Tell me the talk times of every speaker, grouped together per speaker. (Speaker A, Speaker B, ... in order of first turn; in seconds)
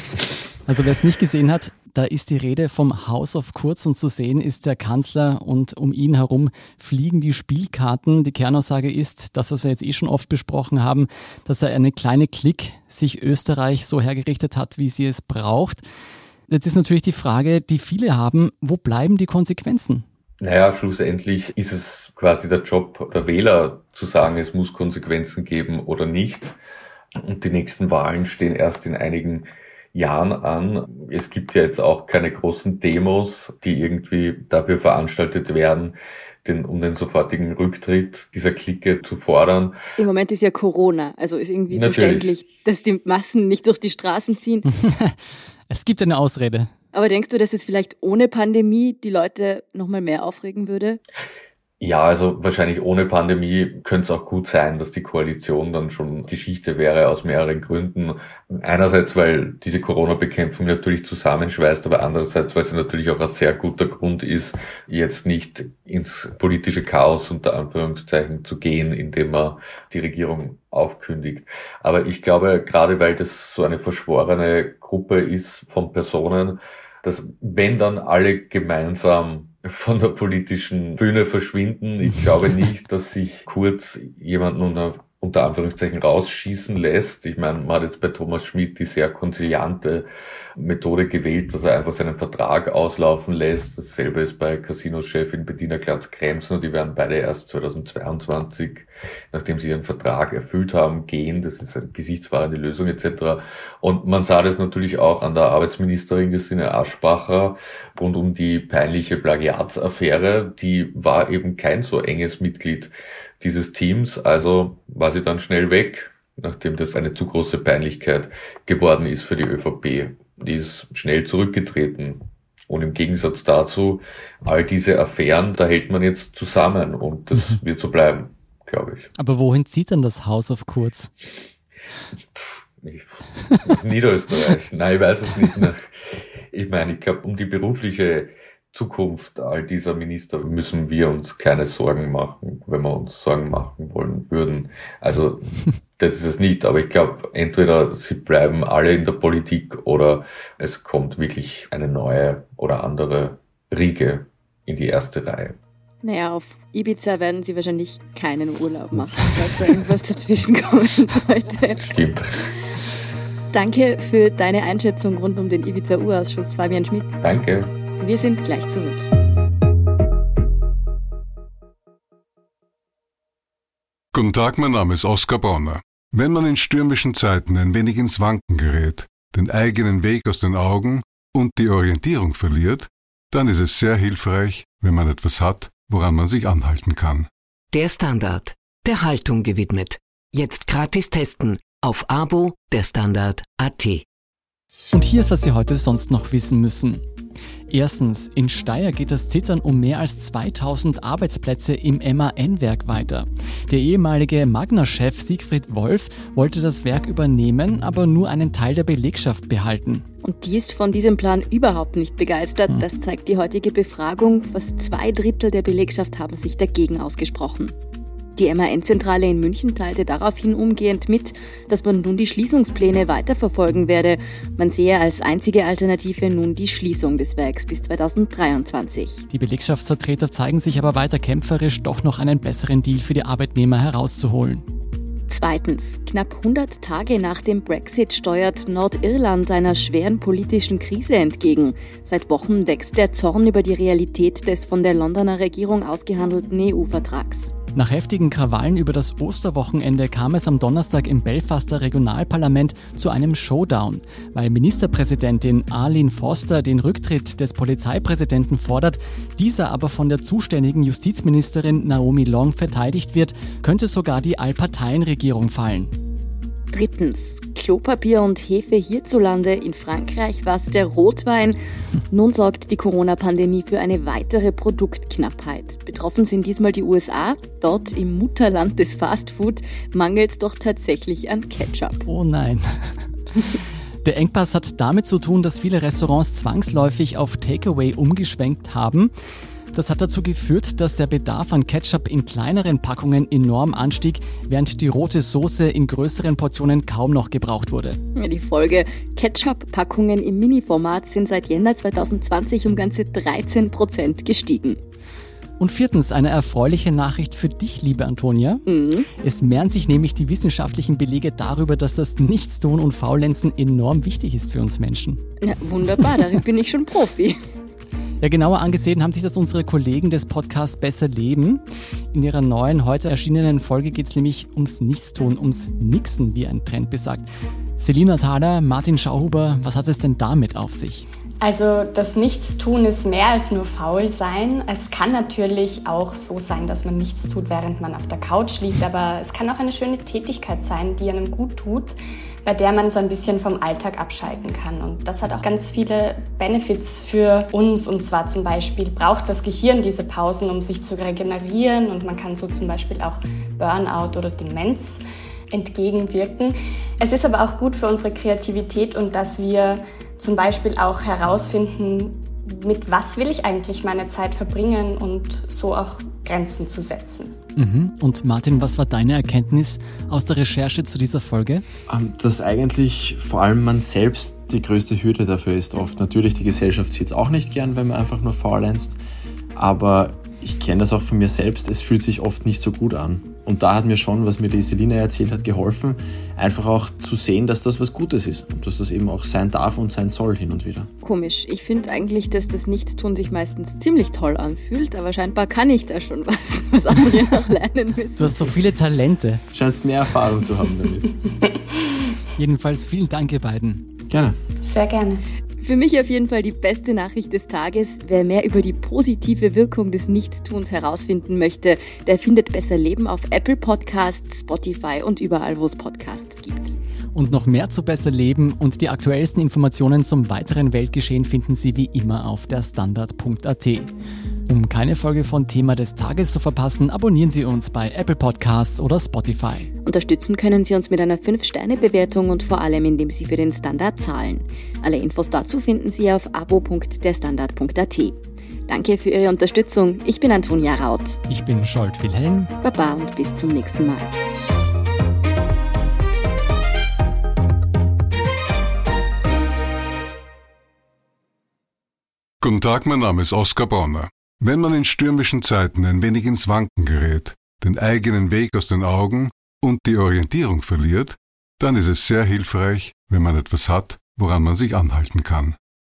Speaker A: 0.7-15.8, 16.5-20.1, 44.7-45.2, 45.7-46.7, 129.2-131.1, 194.9-197.0, 197.7-210.1, 229.3-234.7, 247.8-265.9, 282.1-283.4, 284.0-289.1, 289.7-298.0, 305.6-315.2, 318.2-321.6, 322.1-331.1, 367.6-371.6, 398.2-399.4, 402.4-403.9, 417.1-423.9, 424.5-429.7, 441.3-442.5
Speaker B: 20.4-26.6, 27.2-39.8, 41.7-42.3, 51.8-129.1, 132.3-135.9, 136.5-155.6, 161.8-162.5, 167.2-167.7
Speaker C: 40.0-44.7, 46.9-51.0, 156.0-161.9, 163.5-167.2, 168.0-169.1, 210.2-217.8, 218.4-229.2, 235.3-247.5, 266.7-271.6, 272.1-282.1, 298.1-304.8, 308.7-309.1, 315.4-317.4, 391.0-398.6, 405.6-416.8, 429.9-441.2, 442.6-444.1
Speaker D: 174.1-187.3, 452.4-465.6
Speaker E: 187.7-194.1
Speaker F: 331.4-367.4, 404.6-405.2
Speaker G: 371.9-379.0, 379.6-390.9, 399.5-401.2, 404.1-404.4